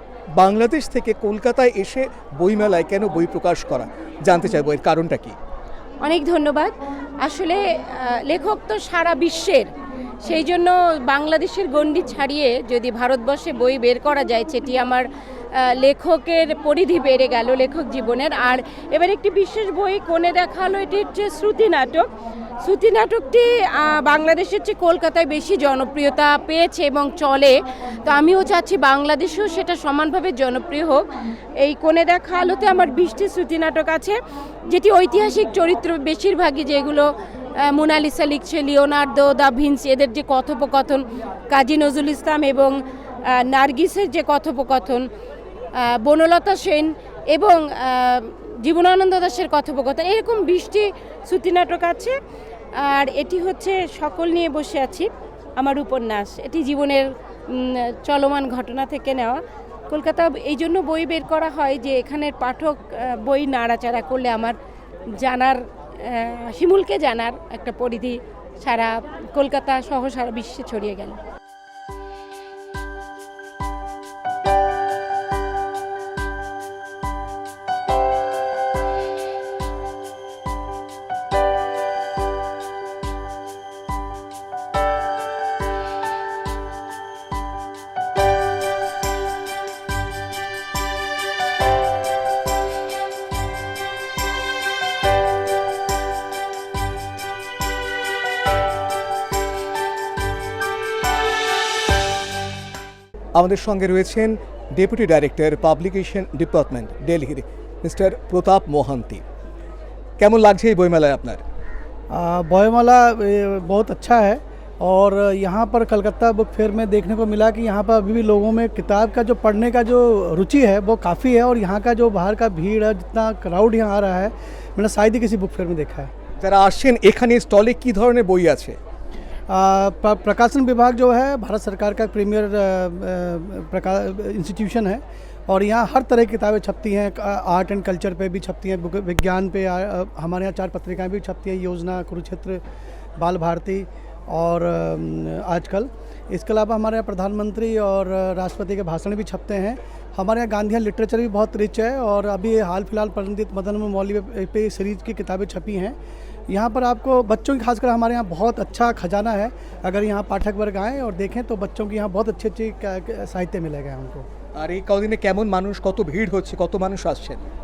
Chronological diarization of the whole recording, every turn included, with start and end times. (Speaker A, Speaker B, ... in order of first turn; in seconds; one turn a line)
Speaker A: 0.3-5.3
Speaker B: 6.0-6.7
Speaker B: 7.2-9.7
Speaker B: 10.2-15.1
Speaker B: 15.8-22.1
Speaker B: 22.6-34.2
Speaker B: 34.7-37.1
Speaker B: 37.6-42.8
Speaker B: 43.3-45.1
Speaker B: 46.0-52.1
Speaker B: 52.8-59.4
Speaker B: 59.9-64.5
Speaker B: 65.2-71.2
Speaker A: 103.3-109.2
Speaker A: 110.2-111.4
Speaker C: 112.1-126.1
Speaker A: 126.4-128.8
Speaker C: 129.5-142.6
Speaker C: 143.2-155.9
Speaker C: 156.5-164.2
Speaker A: 164.6-167.4